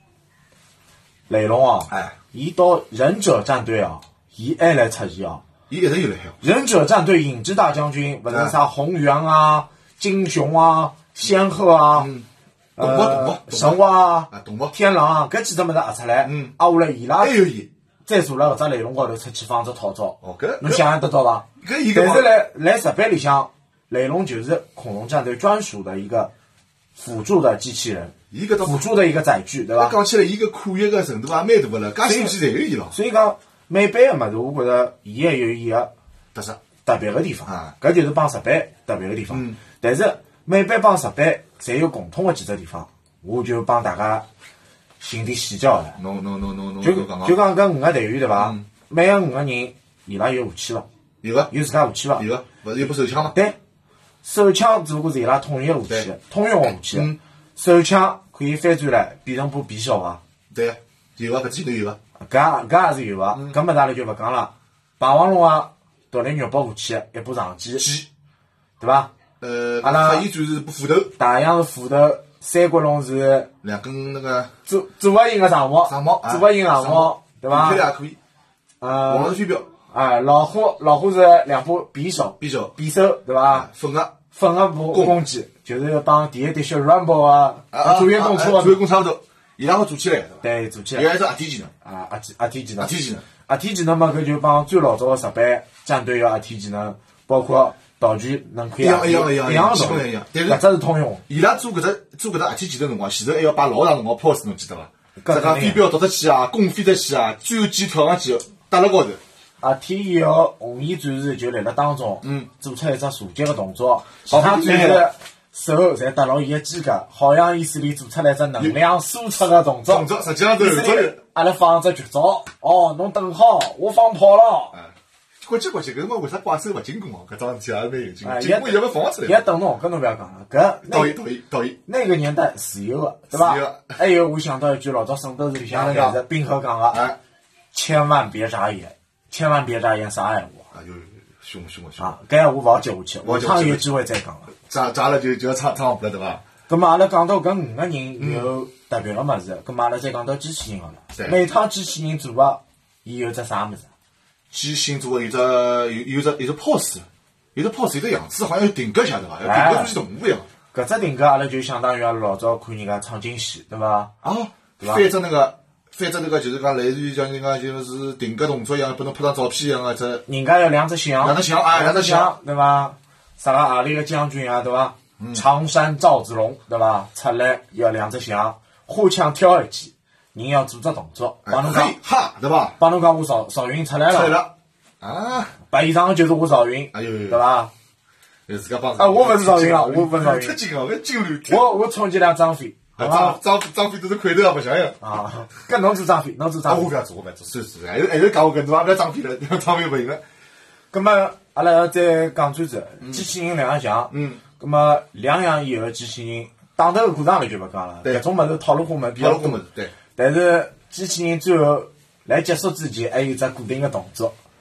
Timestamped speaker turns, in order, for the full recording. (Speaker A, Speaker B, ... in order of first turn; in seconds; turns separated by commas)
Speaker A: 1.3-5.4, Speaker B: 1.9-2.1, Speaker B: 5.7-6.4, Speaker A: 6.4-12.1, Speaker B: 8.3-8.5, Speaker B: 11.9-12.2, Speaker A: 12.8-17.4, Speaker B: 12.8-14.7, Speaker B: 16.2-16.5, Speaker B: 17.2-17.7, Speaker A: 18.1-26.3, Speaker B: 20.2-20.9, Speaker B: 21.6-22.3, Speaker A: 26.9-29.9, Speaker B: 28.3-28.9, Speaker B: 29.8-32.9, Speaker A: 32.0-32.4, Speaker A: 32.9-35.9, Speaker B: 36.3-36.6, Speaker A: 36.8-44.2, Speaker B: 37.5-37.7, Speaker B: 39.3-39.6, Speaker A: 45.0-46.0, Speaker B: 46.0-47.4, Speaker A: 46.8-50.9, Speaker B: 48.4-48.6, Speaker B: 51.2-51.5, Speaker A: 51.5-52.2, Speaker B: 52.1-53.3, Speaker A: 53.3-53.6, Speaker A: 54.2-60.2, Speaker B: 56.7-57.2, Speaker B: 60.5-62.0, Speaker A: 62.2-67.8, Speaker B: 67.8-68.1, Speaker A: 68.8-69.1, Speaker B: 69.4-71.1, Speaker A: 69.8-70.3, Speaker A: 71.2-73.5, Speaker B: 73.6-74.5, Speaker A: 74.7-77.8, Speaker B: 75.9-78.2, Speaker A: 78.8-83.7, Speaker B: 79.1-79.7, Speaker B: 82.4-82.7, Speaker B: 83.5-84.2, Speaker A: 84.3-88.8, Speaker B: 84.9-85.2, Speaker B: 87.7-90.4, Speaker A: 90.4-91.1, Speaker B: 90.9-91.7, Speaker A: 91.8-92.9, Speaker B: 92.8-93.2, Speaker A: 93.5-101.2, Speaker B: 98.8-100.6, Speaker B: 101.3-109.2, Speaker A: 105.2-105.8, Speaker A: 109.6-124.8, Speaker B: 112.2-112.5, Speaker B: 114.3-115.1, Speaker B: 119.9-121.2, Speaker B: 124.7-129.4, Speaker A: 128.2-131.2, Speaker B: 130.9-131.8, Speaker A: 131.8-137.0, Speaker B: 133.3-134.0, Speaker B: 135.7-136.2, Speaker B: 136.9-137.2, Speaker A: 137.7-140.7, Speaker B: 140.7-142.1, Speaker A: 142.0-144.5, Speaker B: 143.2-143.8, Speaker B: 144.7-146.4, Speaker A: 146.7-153.9, Speaker B: 148.2-148.5, Speaker B: 151.1-151.4, Speaker B: 154.5-160.5, Speaker A: 159.4-159.9, Speaker A: 160.7-164.1, Speaker B: 164.2-170.2, Speaker A: 164.8-165.1, Speaker A: 170.3-181.9, Speaker B: 171.2-172.3, Speaker B: 175.2-175.4, Speaker B: 181.4-182.8, Speaker A: 182.8-184.4, Speaker B: 184.1-185.5, Speaker A: 185.7-187.7, Speaker B: 186.9-187.4, Speaker B: 188.5-191.7, Speaker A: 189.0-190.6, Speaker A: 191.5-193.4, Speaker B: 193.0-195.0, Speaker A: 195.0-196.9, Speaker B: 196.7-200.2, Speaker A: 200.9-209.6, Speaker B: 203.0-203.3, Speaker B: 204.1-204.4, Speaker B: 209.2-209.9, Speaker A: 210.1-214.3